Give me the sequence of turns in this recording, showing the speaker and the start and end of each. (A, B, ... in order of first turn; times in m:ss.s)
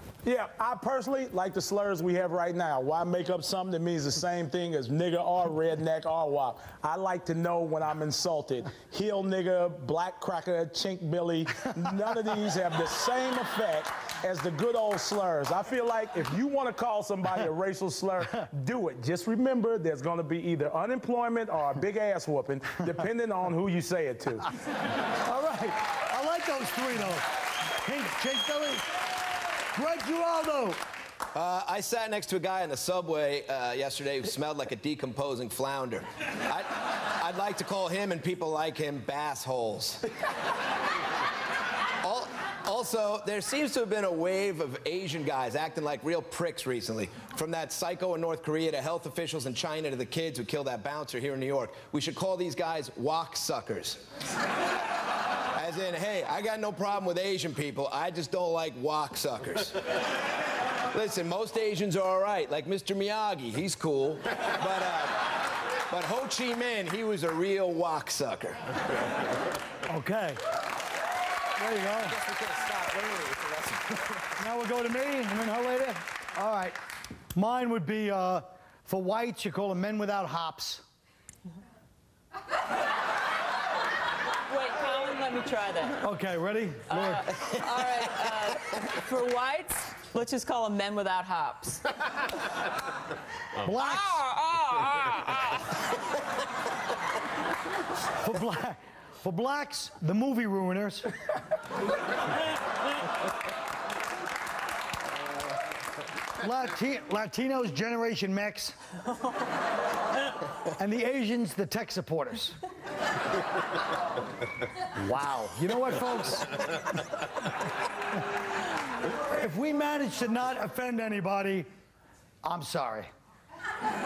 0:00.2-0:24.5 A
0:25.2-0:28.8 B
0:29.8-0:30.8 B
0:31.3-0:40.1 C
0:42.0-0:54.0 C
0:55.6-1:00.0 C
1:00.9-1:09.0 C
1:09.9-1:10.4 B
1:11.6-1:12.2 B
1:12.1-1:14.2 C
1:14.4-1:16.8 B
1:17.4-1:20.8 B
1:24.5-1:26.0 D
1:26.0-1:27.3 B
1:26.9-1:31.9 D
1:33.6-1:34.2 B
1:33.8-1:35.4 D
1:38.2-1:41.1 B
1:46.4-1:48.8 B
1:50.8-1:52.6 B
1:55.0-1:57.0 B
1:59.1-2:01.7 B
2:02.4-2:03.1 B